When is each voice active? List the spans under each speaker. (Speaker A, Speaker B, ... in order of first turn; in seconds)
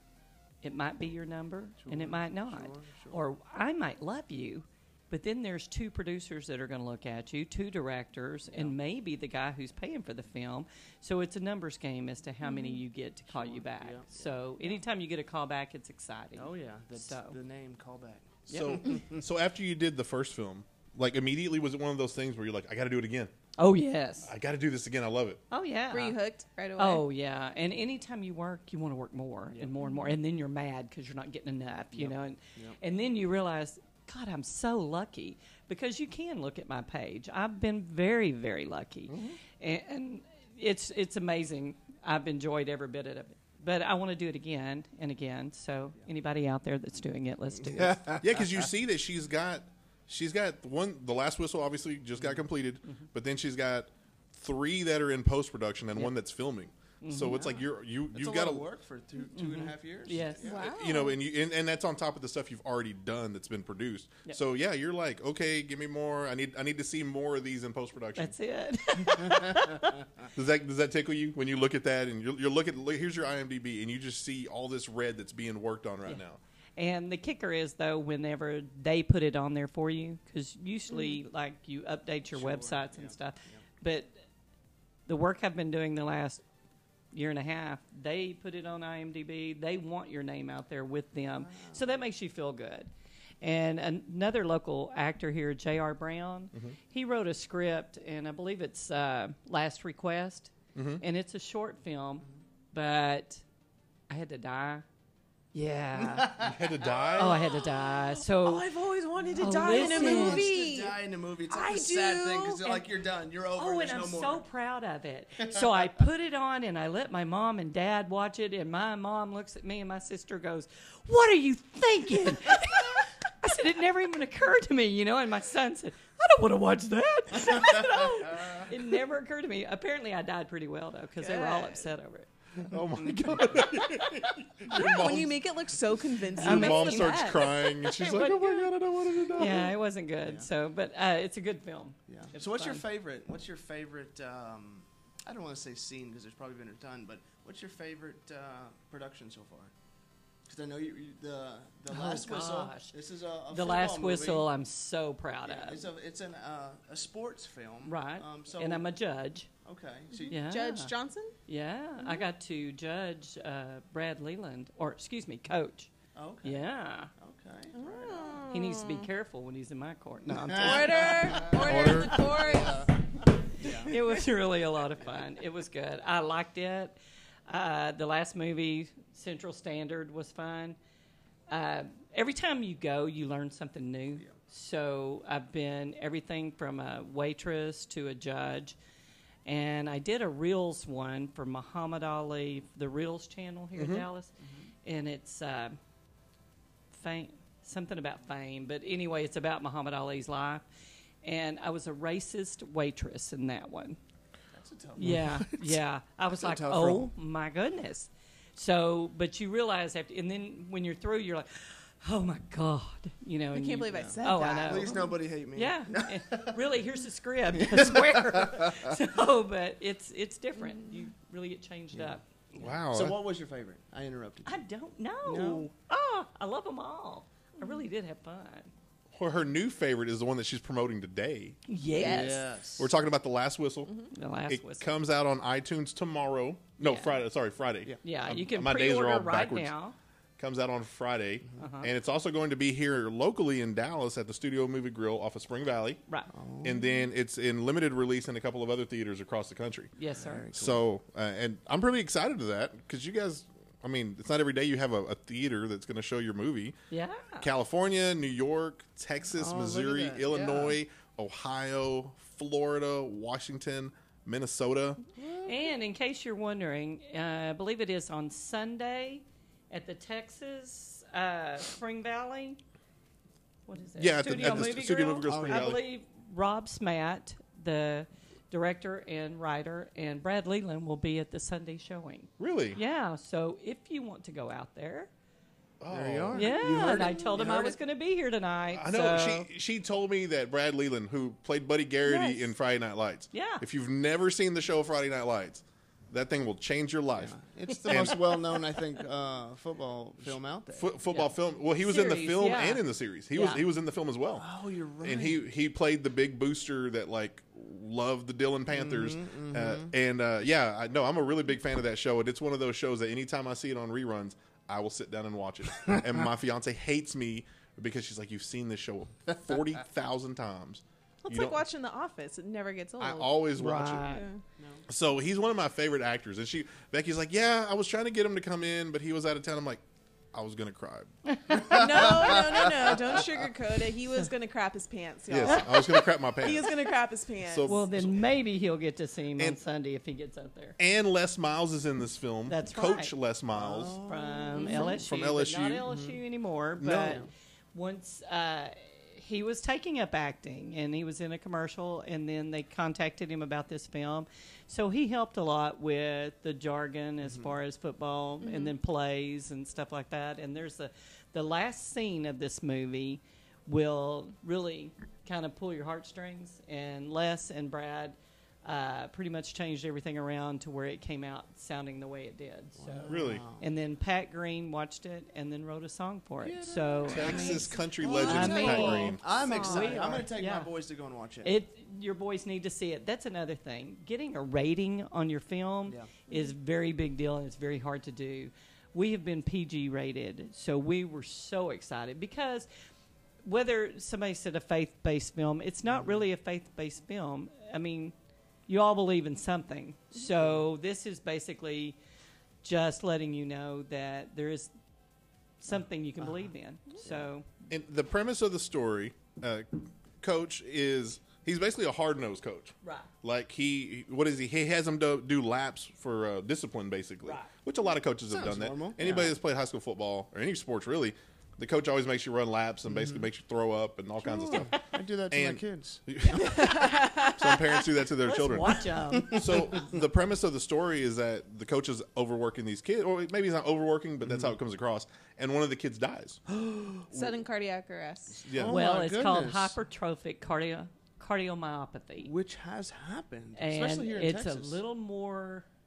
Speaker A: 0.6-17.4, 18.5-18.9, 23.6-24.3, 25.5-26.2, 26.8-48.1, 57.0-57.6, 59.3-60.5, 68.2-70.0, 76.8-84.2, 85.1-86.4, 87.1-92.9, 93.4-103.4, 104.1-104.8, 105.5-106.4, 107.1-108.7, 109.4-110.5, 113.6-132.3, 136.4-138.6, 139.3-142.8, 151.9-152.9, 153.5-155.8, 157.8-159.5, 160.3-160.9, 161.5-165.9, 166.4-167.1, 168.5-171.5, 173.5-180.8, 181.5-188.8, 189.4-194.3, 194.8-195.8, 196.9-200.7, 201.2-204.0, 205.0-222.7, 224.4-228.7, 231.7-232.4, 234.1-234.9, 236.8-237.2, 238.0-239.9, 241.6-241.9, 250.0-250.5, 256.9-257.5, 265.4-272.6, 273.7-285.1, 286.3-289.5, 292.1-292.5, 293.3-293.6, 297.7-298.6, 301.1-303.6, 323.6-324.3, 331.3-331.8, 337.7-340.8, 342.5-343.1, 344.0-380.7, 381.4-392.7, 393.4-398.1, 398.7-402.0, 402.6-404.7, 405.6-407.5, 412.8-413.1, 426.4-426.8, 428.2-429.7, 438.7-442.3, 443.6-445.7
Speaker B: 1.8-3.2, 8.5-8.8, 13.3-14.8, 16.4-19.2, 31.9-32.8, 47.7-48.2, 58.1-60.7, 69.2-69.7, 82.3-83.6, 91.4-91.8, 106.0-114.5, 142.1-149.7, 150.5-154.5, 155.4-158.9, 159.6-160.4, 166.2-166.6, 167.2-168.4, 170.3-172.9, 173.6-174.0, 194.4-194.7, 204.5-205.5, 206.3-207.1, 213.9-216.6, 217.6-219.0, 222.8-224.6, 225.2-225.7, 231.9-232.9, 246.3-246.8, 250.2-250.8, 259.3-260.8, 265.2-265.6, 275.2-275.7, 285.9-287.8, 297.2-300.9, 304.4-305.4, 308.7-309.9, 324.6-324.8, 331.5-332.3, 343.5-344.9, 345.9-346.2, 357.2-357.6, 372.8-373.7, 376.4-381.5, 395.9-396.2, 406.2-406.5, 418.3-419.3, 422.9-423.3, 424.2-426.6, 429.1-429.9, 436.5-437.1, 438.4-439.8, 442.2-444.8
Speaker C: 12.4-12.8, 25.9-27.0, 60.4-61.2, 109.1-111.0, 111.5-112.7, 131.2-131.9, 134.7-138.5, 160.1-161.4, 162.0-162.2, 167.7-169.1, 170.5-172.9, 213.5-215.1, 220.6-220.9, 231.9-232.3, 321.2-323.4, 324.0-324.4, 331.6-337.8, 344.6-344.9, 358.4-358.7, 378.0-380.2, 426.5-427.8, 437.1-438.4
Speaker D: 18.5-23.3, 24.2-25.4, 39.1-39.4, 48.2-58.6, 60.5-68.3, 70.3-76.4, 100.8-101.0, 106.4-107.5, 132.6-135.4, 136.4-139.7, 171.5-172.4, 193.8-194.1, 222.6-223.2, 229.1-231.6, 232.8-239.7, 240.4-246.0, 246.6-249.9, 250.5-256.8, 257.4-265.0, 274.0-275.8, 282.4-282.8, 285.8-286.6, 288.7-298.2, 300.8-304.4, 305.0-321.6, 323.0-324.2, 324.9-333.3, 335.3-336.8, 337.4-338.2, 340.8-344.0, 344.8-345.9, 346.8-347.2, 373.1-373.5, 377.1-379.2, 407.7-424.8, 425.3-436.4, 438.5-438.8